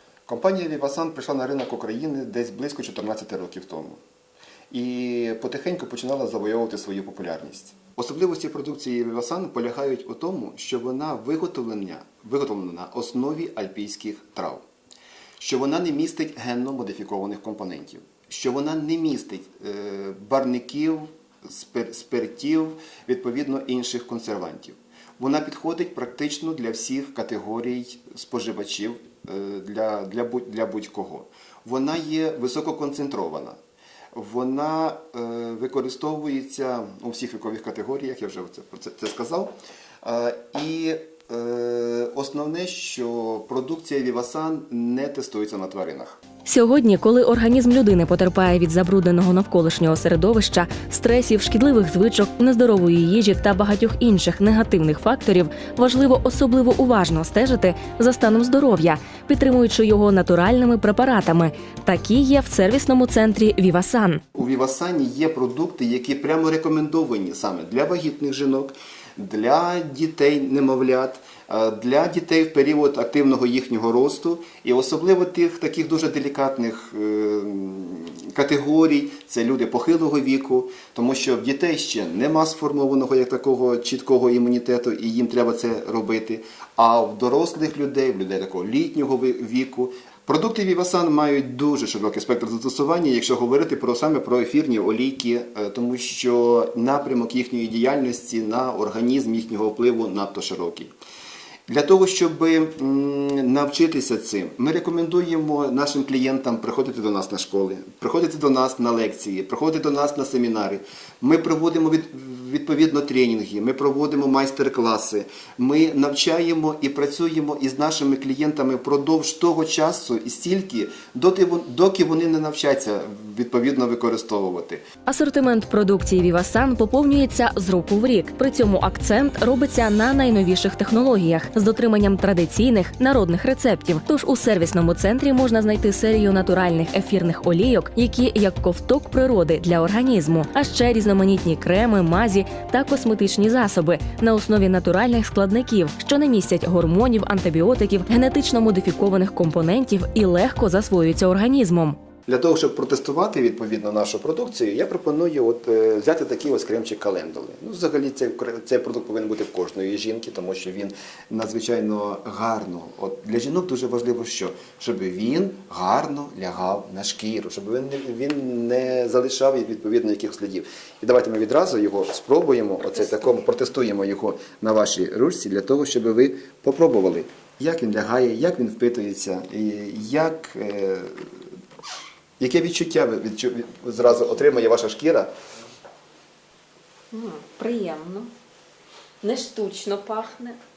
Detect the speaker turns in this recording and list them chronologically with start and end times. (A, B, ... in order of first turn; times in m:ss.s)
0:00.3-0:04.0 A
0:04.7-0:14.6 A
0:15.4-0:33.6 A
0:34.1-0:46.2 A
0:46.5-1:04.2 B
1:04.4-1:40.9 A
1:41.7-2:04.8 A
2:05.1-2:32.0 B
2:32.3-3:01.2 A
3:02.4-3:05.3 A
3:07.1-3:08.3 C
3:07.7-3:08.1 B
3:09.2-3:10.6 C
3:09.5-3:10.3 B